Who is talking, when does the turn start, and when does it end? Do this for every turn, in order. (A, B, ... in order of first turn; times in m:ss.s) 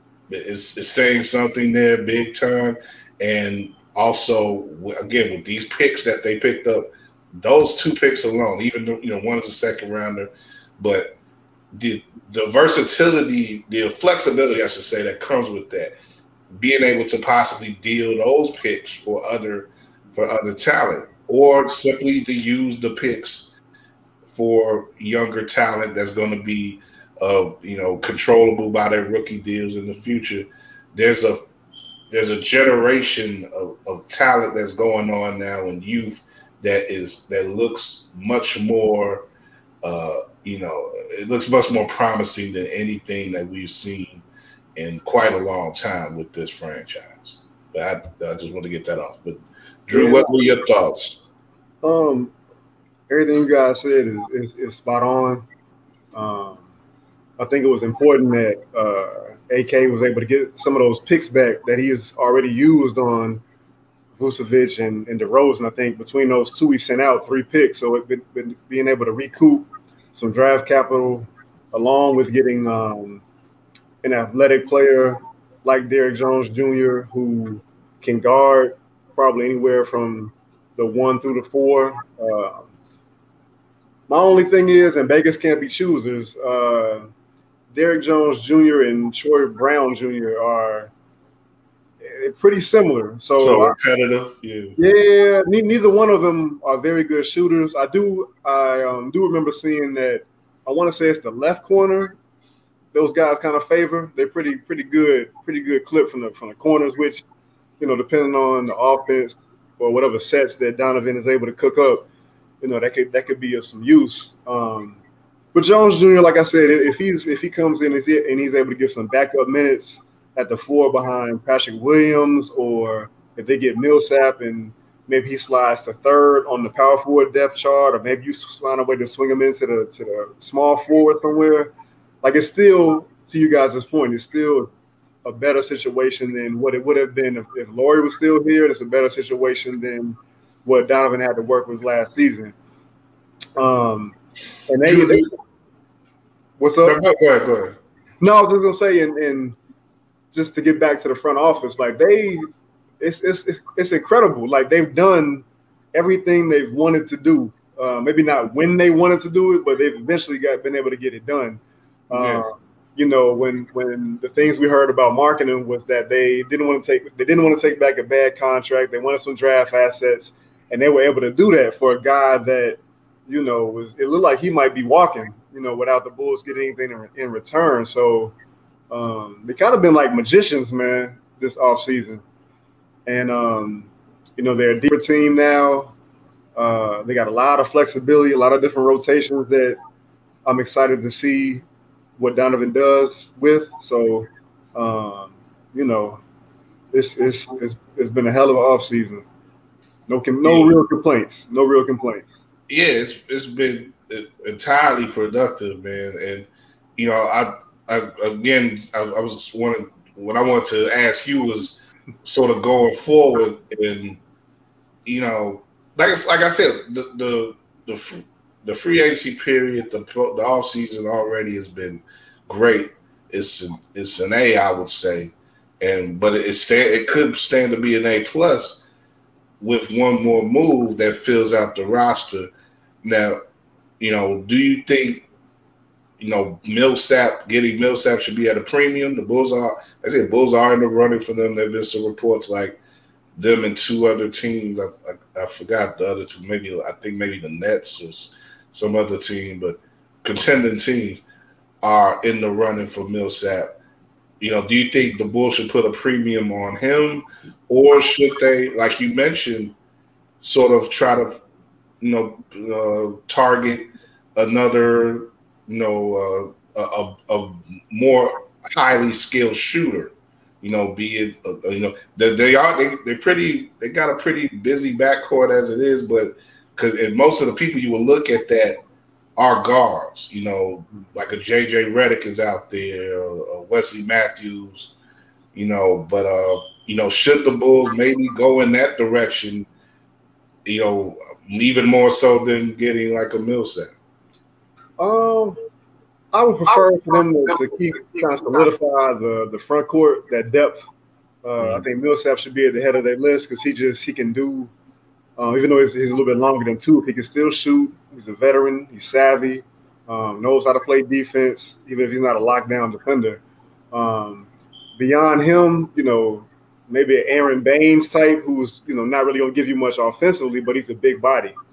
0:00.3-0:11.2 A
0:11.7-0:15.9 A
0:16.6-0:23.5 A
0:24.2-0:31.4 A
0:32.1-0:39.3 A
0:39.8-0:44.2 A
0:44.8-0:51.2 A
0:49.9-0:50.3 B
0:51.8-0:52.3 B
0:53.1-0:55.4 B
0:56.1-0:56.6 B
0:57.4-1:03.4 B
1:04.2-1:13.2 B
1:14.0-1:22.7 B
1:24.1-1:27.1 B
1:27.7-1:30.9 B
1:32.0-1:33.8 B
1:33.4-1:34.8 A
1:34.8-1:42.2 B
1:42.9-1:47.2 B
1:47.8-1:52.1 B
1:52.6-1:55.0 B
1:55.5-2:14.7 B
2:15.2-2:22.5 B
2:23.6-2:24.2 B
2:24.7-2:25.3 B
2:24.8-2:25.3 A
2:26.6-2:27.0 B
2:26.8-2:27.8 A
2:28.2-2:29.6 B
2:30.3-2:58.3 B
2:42.1-2:42.4 A
2:58.9-3:02.2 B
3:03.0-3:05.9 B
3:06.6-3:09.8 B
3:10.4-3:11.6 B
3:12.2-3:16.2 B
3:16.9-3:19.2 B
3:20.1-3:22.3 B
3:20.4-3:20.7 A
3:22.7-3:34.2 A
3:35.0-3:48.8 A
3:49.6-3:52.5 A
3:53.0-3:53.4 A
3:54.0-3:55.2 A
3:56.2-4:02.8 A
4:03.4-4:11.2 A
4:11.8-4:13.7 A
4:14.4-4:19.8 A
4:20.4-4:21.4 A
4:22.0-4:38.8 A
4:39.4-4:44.9 A
4:45.5-4:49.7 A
4:50.6-4:53.9 A
4:55.0-4:55.6 B
4:56.3-5:00.8 B
5:01.4-5:04.7 B
5:01.6-5:01.8 A
5:05.4-5:21.6 B